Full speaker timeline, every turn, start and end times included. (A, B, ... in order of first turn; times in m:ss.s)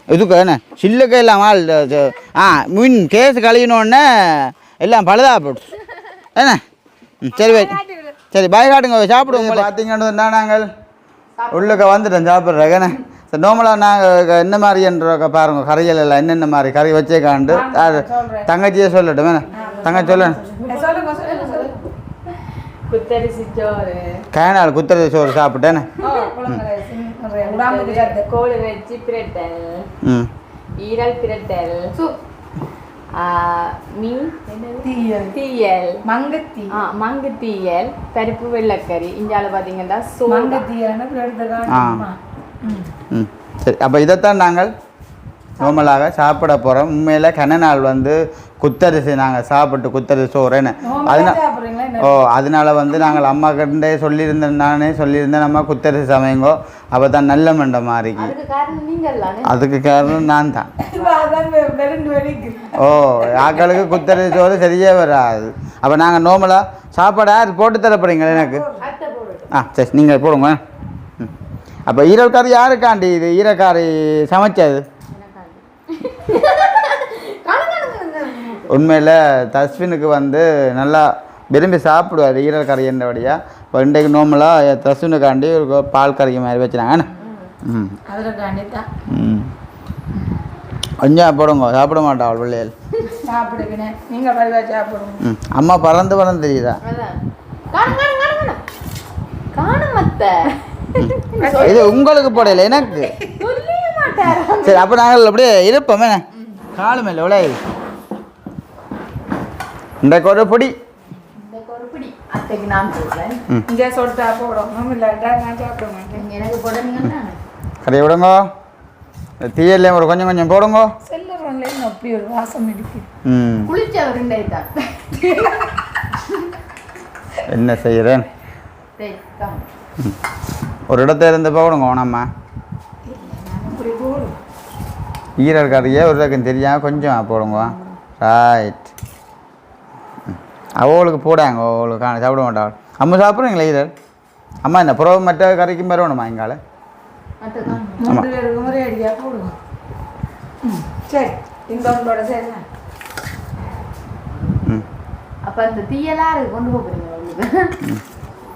0:00.1-0:05.7 A
0:06.4-0:06.6 A
0:07.2-0:07.8 A
0:07.3-0:08.2 B
0:08.3-0:10.7 A
0:09.4-0:09.6 B
0:11.4-0:12.0 C
0:11.5-0:20.4 A
0:17.5-0:18.5 B
0:19.5-0:22.3 C
0:19.5-0:21.8 B
0:22.9-0:24.3 C
0:24.3-0:25.9 A
0:26.0-0:26.3 C
0:26.0-0:28.3 B
0:27.4-0:29.9 C
0:30.0-0:30.3 A
0:30.8-0:32.2 C
0:33.1-0:36.0 C
0:34.8-0:35.4 B
0:36.0-0:36.8 B
0:36.7-0:40.6 C
0:40.3-0:42.9 B
0:41.7-0:42.0 A
0:43.1-0:44.7 A
0:45.6-0:45.9 B
0:45.6-0:51.4 A
0:50.8-0:52.2 B
0:52.0-0:58.3 A
0:58.1-0:59.6 C
0:59.4-1:00.7 A
1:00.8-1:02.7 B
1:02.7-1:08.6 A
1:08.3-1:08.8 B
1:08.8-1:09.5 C
1:09.5-1:10.6 A
1:11.9-1:14.8 A
1:15.1-1:18.8 C
1:18.7-1:27.1 A
1:27.1-1:27.5 C
1:27.6-1:28.0 A
1:28.1-1:28.9 B
1:29.1-1:29.5 A
1:31.0-1:32.7 A
1:33.2-1:35.2 B
1:35.2-1:36.8 A
1:36.8-1:37.2 C
1:37.7-1:38.6 C
1:39.5-1:42.3 C
1:41.0-1:43.1 A
1:41.4-1:42.0 B
1:43.3-1:44.9 C
1:44.6-1:46.2 A
1:46.3-1:46.6 C
1:46.7-1:47.6 A
1:50.0-1:50.7 A
1:51.3-1:53.4 C
1:53.7-1:56.2 B
1:56.1-1:57.4 C
1:57.8-1:58.5 A
1:59.4-2:00.9 A
2:01.0-2:03.1 B
2:03.2-2:03.7 A
2:03.6-2:05.6 C
2:06.2-2:06.5 C
2:07.4-2:08.3 A
2:09.0-2:09.7 C
2:10.9-2:12.3 A
2:13.0-2:14.4 B
2:15.4-2:18.9 A
2:20.3-2:23.9 A
2:24.6-2:26.6 A
2:27.4-2:28.2 C
2:28.0-2:29.5 B
2:30.6-2:32.6 B
2:35.4-2:37.8 C